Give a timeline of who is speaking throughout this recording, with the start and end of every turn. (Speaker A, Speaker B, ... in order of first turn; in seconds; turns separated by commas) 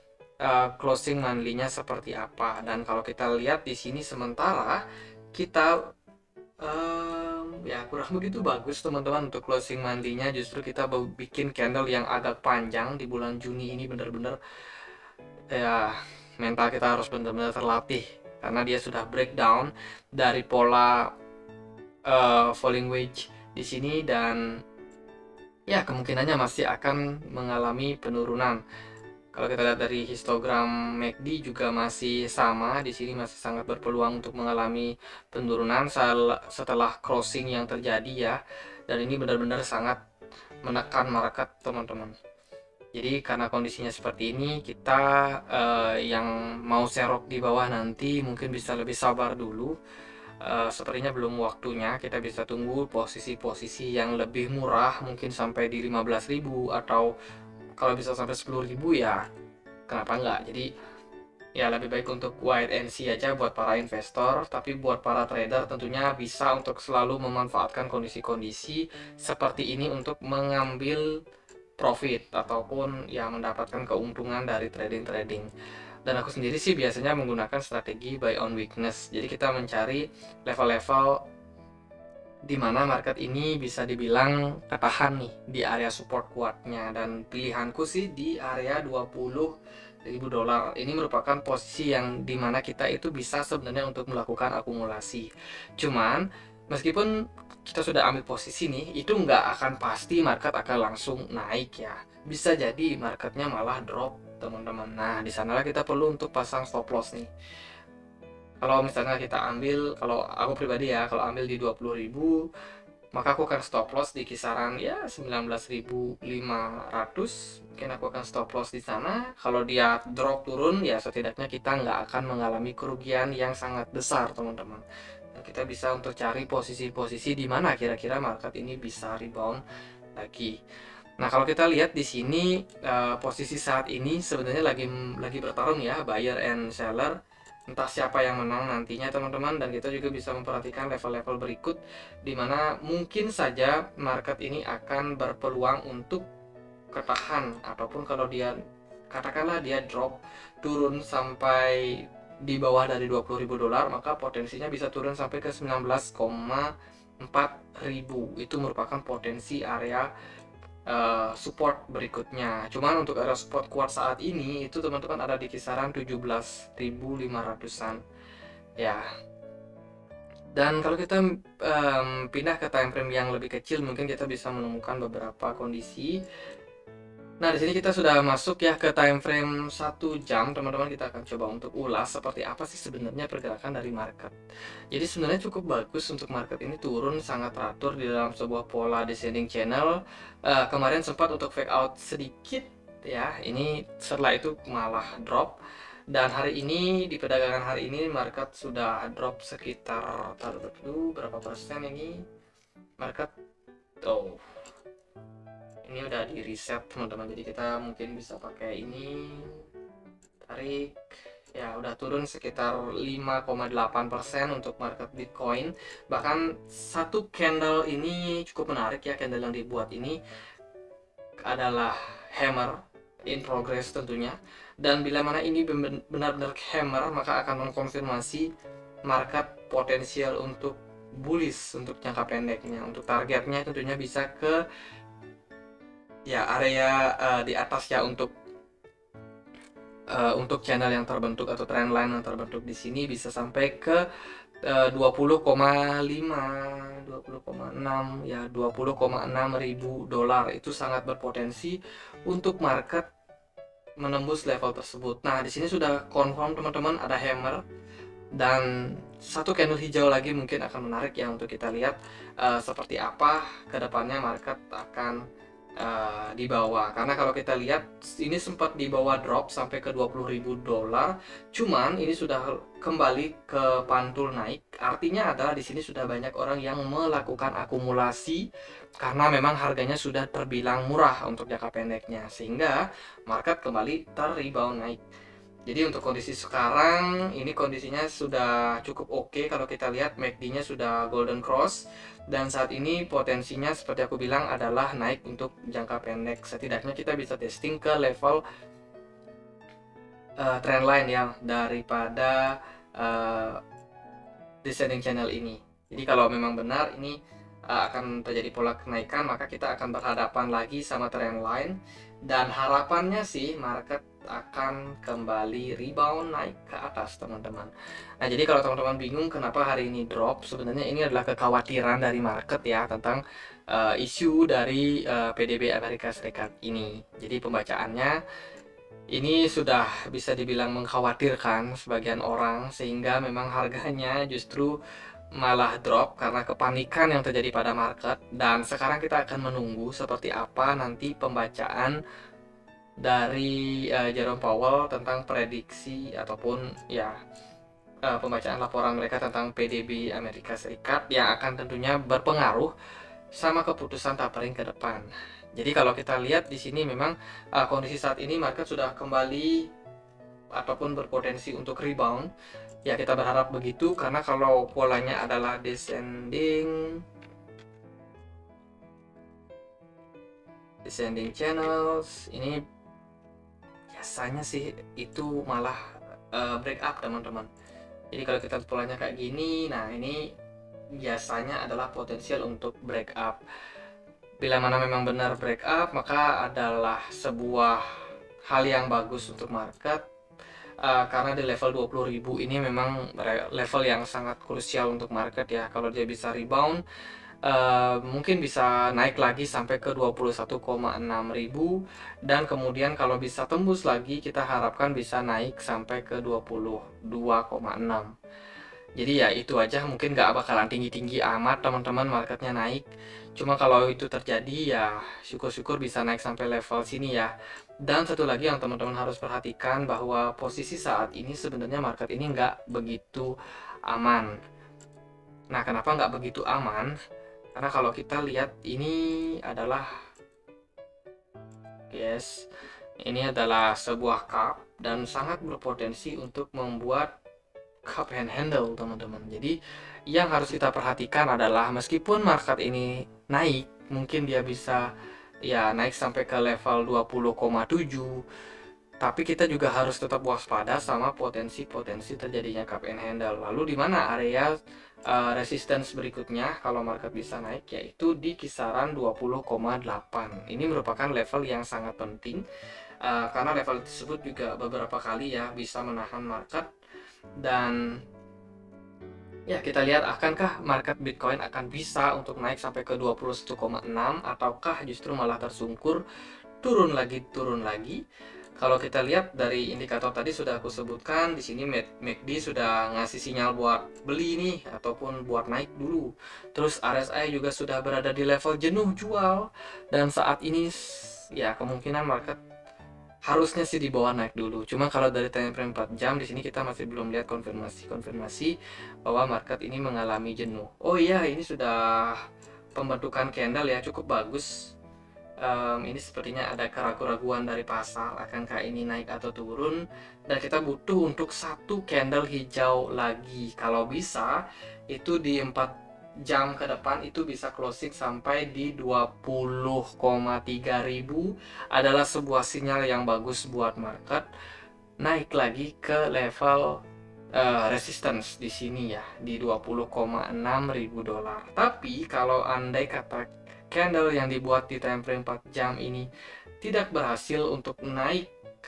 Speaker A: 0.4-4.8, Speaker A: 5.3-5.8, Speaker A: 6.6-14.4, Speaker A: 15.5-21.1, Speaker A: 22.1-24.6, Speaker A: 25.7-28.6, Speaker A: 29.3-40.0, Speaker A: 40.6-42.1, Speaker A: 42.9-49.7, Speaker A: 50.4-57.1, Speaker A: 57.8-59.2, Speaker A: 59.9-60.7, Speaker A: 61.5-71.0, Speaker A: 71.8-75.5, Speaker A: 76.0-81.2, Speaker A: 82.5-95.3, Speaker A: 95.8-97.1, Speaker A: 97.6-107.3, Speaker A: 108.6-112.4, Speaker A: 113.1-129.6, Speaker A: 130.2-130.6, Speaker A: 131.2-137.1, Speaker A: 137.7-146.2, Speaker A: 146.9-148.5, Speaker A: 149.1-156.7, Speaker A: 157.2-160.1, Speaker A: 160.9-168.0, Speaker A: 168.8-169.0, Speaker A: 170.5-176.2, Speaker A: 177.4-184.3, Speaker A: 184.9-195.6, Speaker A: 196.1-202.2, Speaker A: 203.0-203.3, Speaker A: 204.0-204.4, Speaker A: 205.8-209.6, Speaker A: 210.5-210.9, Speaker A: 211.6-220.2, Speaker A: 221.4-222.8, Speaker A: 223.3-228.5, Speaker A: 229.1-234.6, Speaker A: 236.3-238.3, Speaker A: 240.1-244.0, Speaker A: 244.6-253.1, Speaker A: 254.0-257.6, Speaker A: 258.3-265.2, Speaker A: 265.8-278.4, Speaker A: 279.0-285.0, Speaker A: 285.7-298.4, Speaker A: 300.4-303.6, Speaker A: 304.6-307.2, Speaker A: 307.7-328.2, Speaker A: 329.1-334.8, Speaker A: 335.4-342.0, Speaker A: 343.0-347.1, Speaker A: 348.0-352.7, Speaker A: 353.3-359.7, Speaker A: 360.5-362.3, Speaker A: 362.9-367.0, Speaker A: 370.8-372.6, Speaker A: 373.9-375.8, Speaker A: 376.3-377.5, Speaker A: 378.1-380.3, Speaker A: 381.0-383.4, Speaker A: 384.4-387.8, Speaker A: 388.5-390.0, Speaker A: 390.8-396.8, Speaker A: 397.4-408.1, Speaker A: 408.9-412.9, Speaker A: 413.4-417.3, Speaker A: 417.8-423.3, Speaker A: 423.9-424.3, Speaker A: 425.5-426.9, Speaker A: 427.5-429.9, Speaker A: 431.9-432.5, Speaker A: 433.0-437.1, Speaker A: 437.9-439.6, Speaker A: 440.1-444.8, Speaker A: 445.5-448.2, Speaker A: 449.0-454.5, Speaker A: 455.1-462.4, Speaker A: 463.0-466.7, Speaker A: 467.4-467.8, Speaker A: 469.5-476.0, Speaker A: 476.6-478.0, Speaker A: 478.6-492.4, Speaker A: 493.2-502.2, Speaker A: 502.8-504.7, Speaker A: 505.4-514.4, Speaker A: 514.9-515.7, Speaker A: 516.2-524.3, Speaker A: 525.0-526.8, Speaker A: 527.3-536.1, Speaker A: 536.6-538.3